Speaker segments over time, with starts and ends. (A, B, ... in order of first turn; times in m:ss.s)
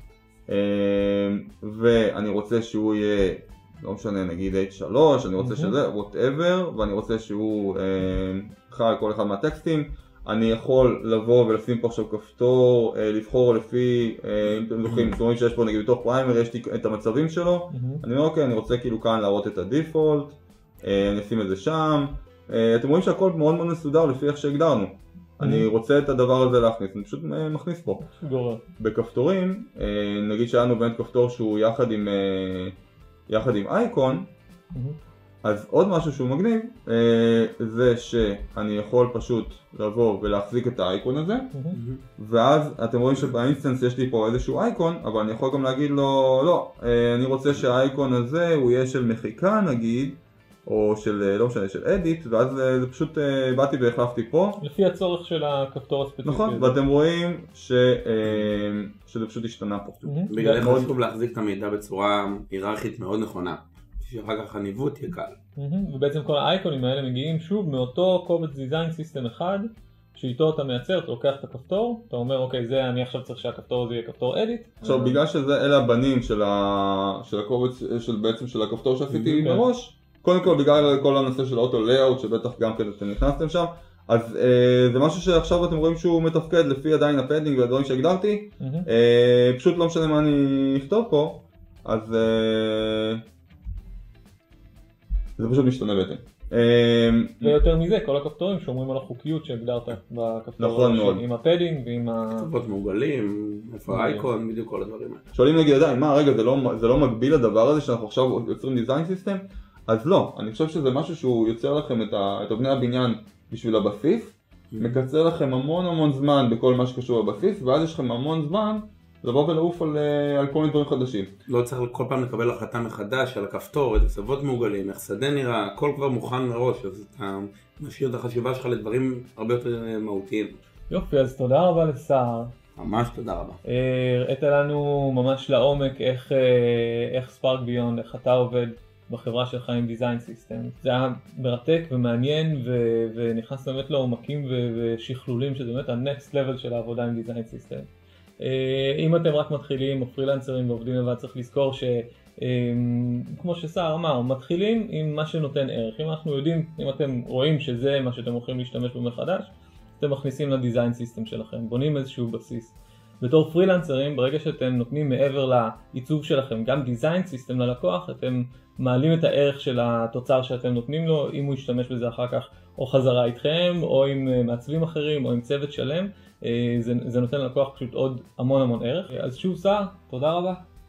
0:00.5-0:28.0 A
0:05.4-0:05.7 B
0:17.7-0:18.0 B
0:25.4-0:25.7 B
0:28.0-0:28.6 B
0:28.8-0:32.8 A
0:33.3-0:34.3 A
0:35.4-0:41.5 A
0:41.7-0:42.0 C
0:42.2-0:54.6 A
0:54.6-0:56.8 B
0:56.2-1:00.9 A
1:00.1-1:00.6 B
1:00.3-1:05.4 C
1:05.6-1:15.2 B
1:14.8-1:33.2 A
1:19.1-1:19.6 B
1:28.6-1:28.9 B
1:35.4-1:37.6 A
1:37.4-1:42.5 B
1:40.6-1:41.2 A
1:42.4-1:45.2 C
1:43.9-1:44.3 B
1:45.3-2:01.3 A
1:54.7-1:55.0 C
2:01.5-2:10.6 C
2:10.9-2:12.5 B
2:12.8-2:13.6 C
2:13.6-2:27.9 B
2:28.4-3:00.6 B